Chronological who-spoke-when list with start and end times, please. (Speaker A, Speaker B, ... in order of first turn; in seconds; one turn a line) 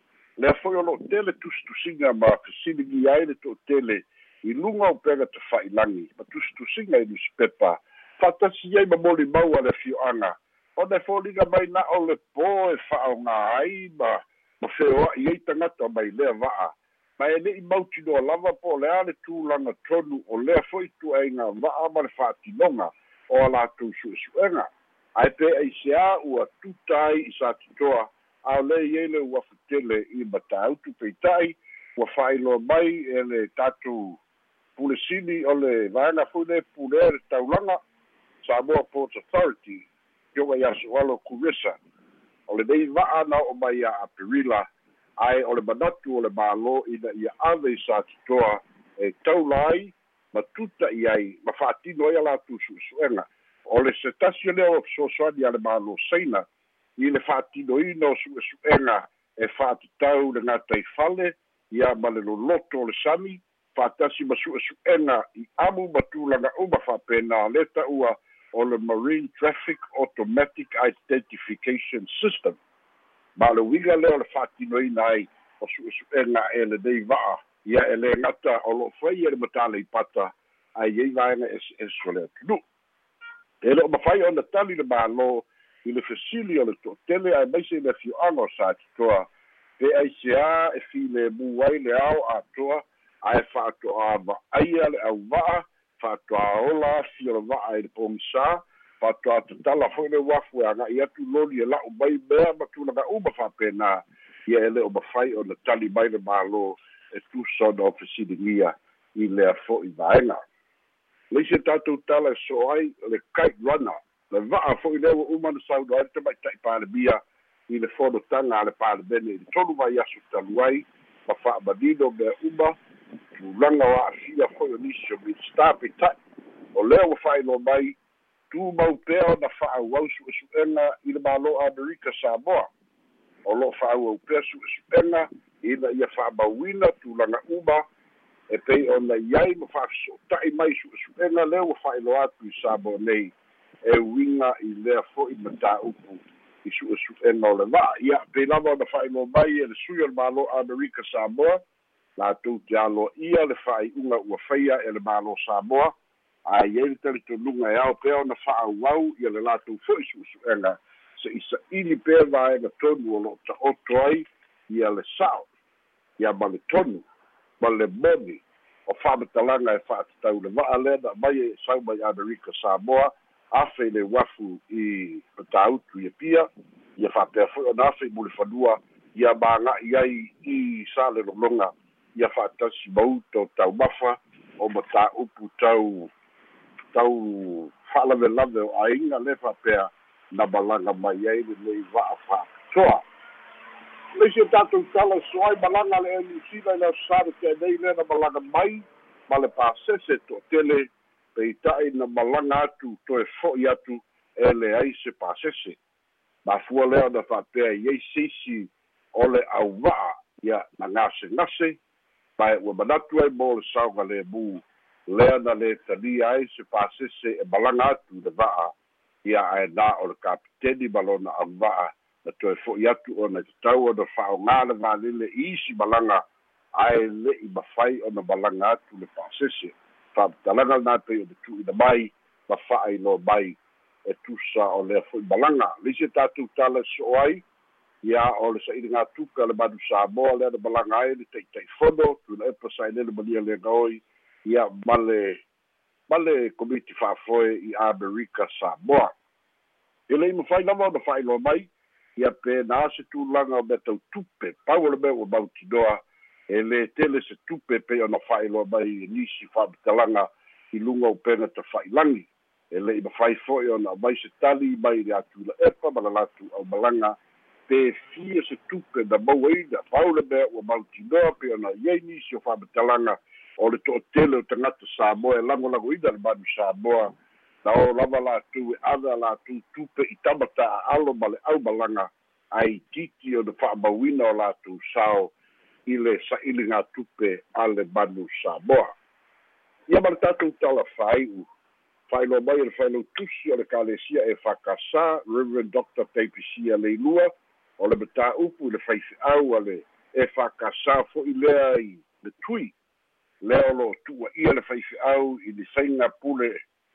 Speaker A: 0.4-34.2
Speaker A: 34.8-37.8
Speaker A: 38.4-41.8
Speaker A: 42.5-44.6
Speaker A: 45.2-56.4
Speaker A: 57.0-72.6
Speaker A: 73.4-82.6
Speaker A: 83.6-89.2
Speaker A: 89.8-110.4
Speaker A: 111.3-122.7
Speaker A: 123.3-126.1
Speaker A: 126.8-127.9
Speaker A: 128.5-132.7
Speaker A: 133.5-137.8
Speaker A: 138.5-143.3
Speaker A: 143.8-151.6
Speaker A: 152.2-155.9
Speaker A: 156.5-165.5
Speaker A: 166.2-167.0
Speaker A: 167.6-176.5
Speaker A: 177.0-186.1
Speaker A: 186.9-193.0
Speaker A: 194.2-205.8
Speaker A: 206.4-211.8
Speaker A: 212.4-218.7
Speaker A: 219.2-226.2
Speaker A: 226.8-233.6
Speaker A: 234.1-237.4
Speaker A: 238.0-245.4
Speaker A: 246.1-249.1
Speaker A: 250.1-256.0
Speaker A: 256.5-267.1
Speaker A: 267.7-277.1
Speaker A: 277.6-285.3
Speaker A: 285.9-288.9
Speaker A: 289.9-291.4
Speaker A: 292.1-302.7
Speaker A: 303.4-306.6